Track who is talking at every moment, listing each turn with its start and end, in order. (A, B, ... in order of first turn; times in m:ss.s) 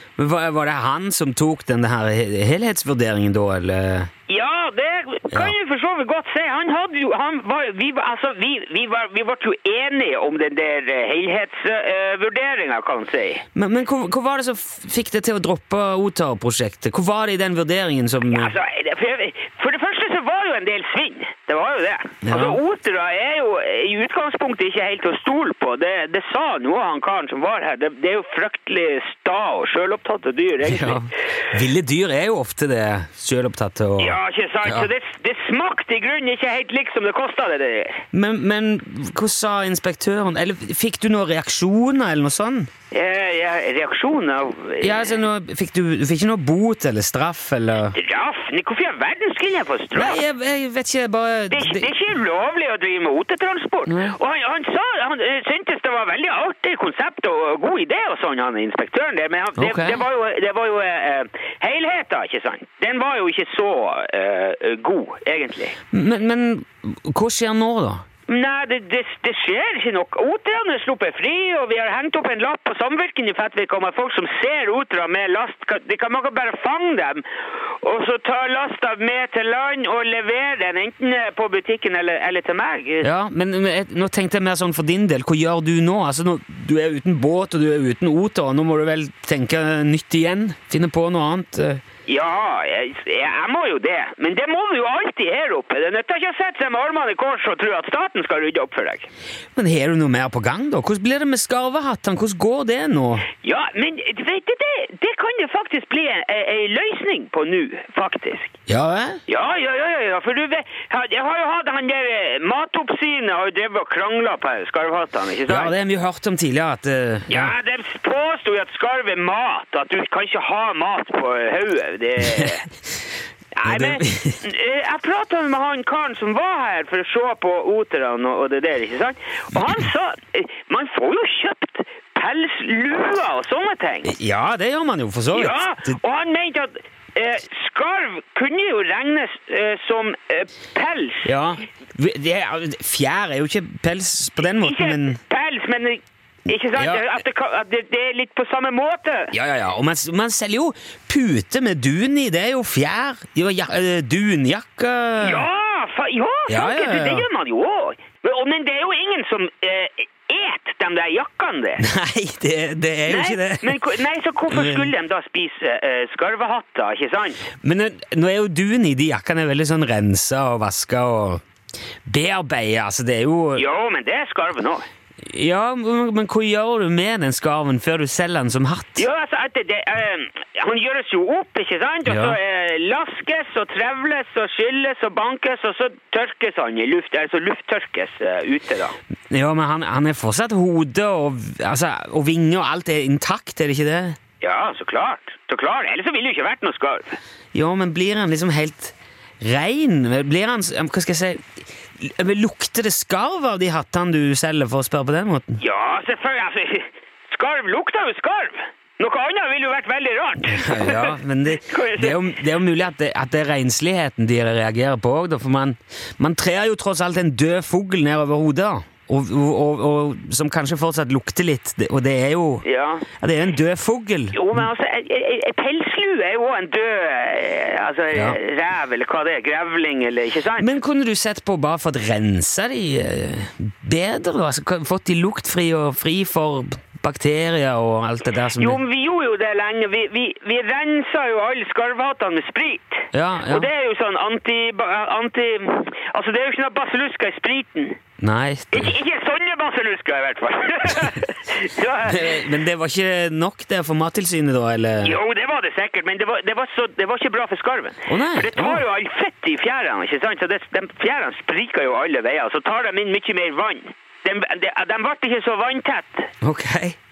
0:00.2-0:04.1 A
0:04.3-0:13.4 B
0:13.6-0:18.6 A
0:18.3-0:31.0 B
0:22.2-0:22.6 A
0:30.6-0:34.9 A
0:34.0-0:38.0 B
0:38.1-0:42.7 A
0:42.9-0:45.2 B
0:44.8-0:48.0 A
0:47.9-0:50.2 B
0:50.0-0:51.9 A
0:51.5-1:05.8 B
0:53.9-0:54.2 A
0:59.6-1:00.0 A
1:05.9-1:08.0 A
1:08.3-1:23.1 B
1:23.0-1:31.8 A
1:32.1-1:39.1 B
1:39.6-1:43.3 A
1:43.4-1:48.6 B
1:48.7-1:49.2 A
1:49.3-1:55.7 B
1:55.5-1:57.6 A
1:57.3-2:02.6 B
2:03.6-2:14.1 B
2:03.7-2:04.4 A
2:14.0-2:16.0 A
2:15.3-2:21.3 B
2:21.2-2:25.2 A
2:24.4-2:29.3 B
2:26.8-2:27.0 A
2:29.3-2:35.5 A
2:35.2-2:41.8 B
2:36.5-2:37.3 A
2:41.8-2:43.8 A
2:43.1-2:47.5 B
2:44.5-2:44.9 A
2:47.6-2:51.4 A
2:52.1-2:53.6 A
2:53.6-2:54.8 B
2:55.3-2:59.1 A
2:59.0-3:09.0 B
3:02.1-3:02.4 A
3:09.3-3:14.2 A
3:14.4-3:17.2 B
3:17.5-3:21.4 A
3:22.0-3:25.6 A
3:25.6-3:32.2 B
3:30.5-3:42.6 A
3:42.6-3:43.1 B
3:43.2-3:44.4 A
3:44.3-3:50.7 B
3:48.1-3:48.4 A
3:50.6-3:58.8 A
3:58.6-4:08.0 B
4:03.1-4:03.7 A
4:08.2-4:08.9 A
4:08.7-4:12.5 B
4:12.0-4:15.2 A
4:15.0-4:26.3 B
4:18.1-4:18.8 A
4:26.4-4:27.0 A